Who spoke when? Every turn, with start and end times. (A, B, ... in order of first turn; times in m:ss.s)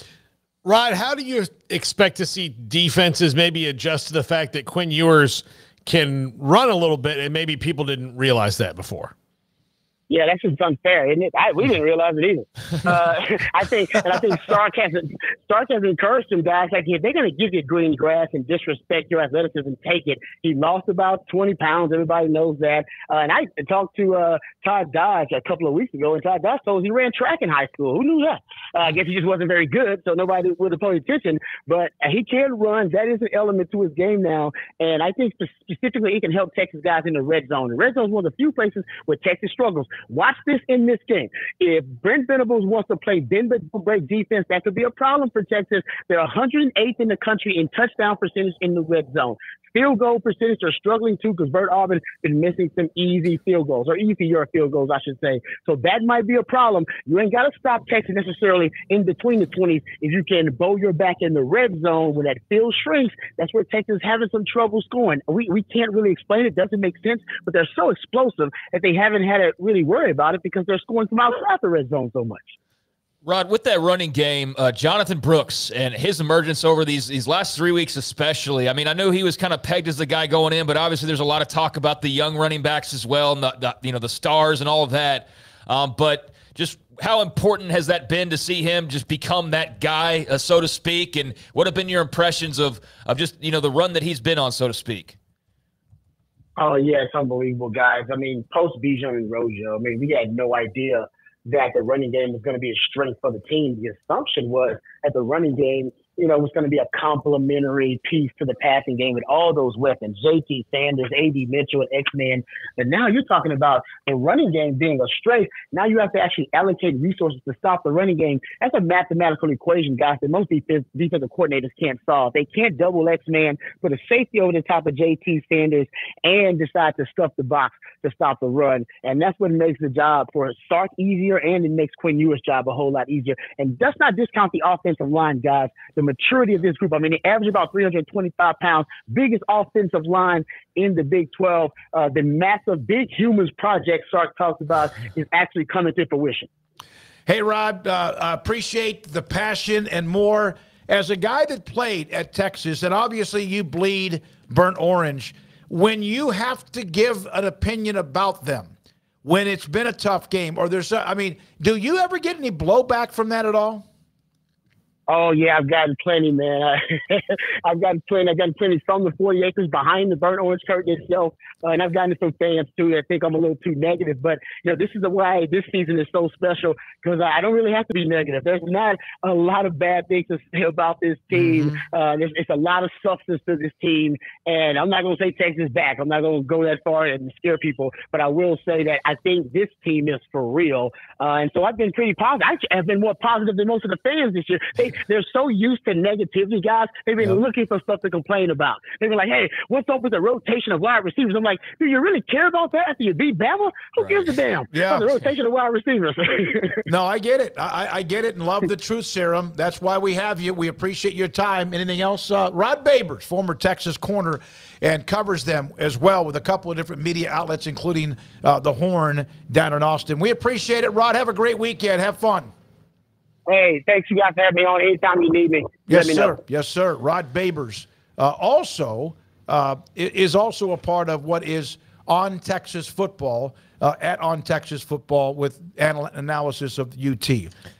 0:00.6-0:09.1 A
0:10.1-1:12.6 B
1:13.2-1:35.2 C
1:36.6-2:26.5 B
2:27.3-2:38.7 D
2:39.2-2:43.8 D
2:45.1-3:26.8 B
3:01.4-3:01.8 D
3:24.7-3:25.1 D
3:26.9-3:42.5 D
3:43.5-3:46.4 B
3:45.9-3:57.5 D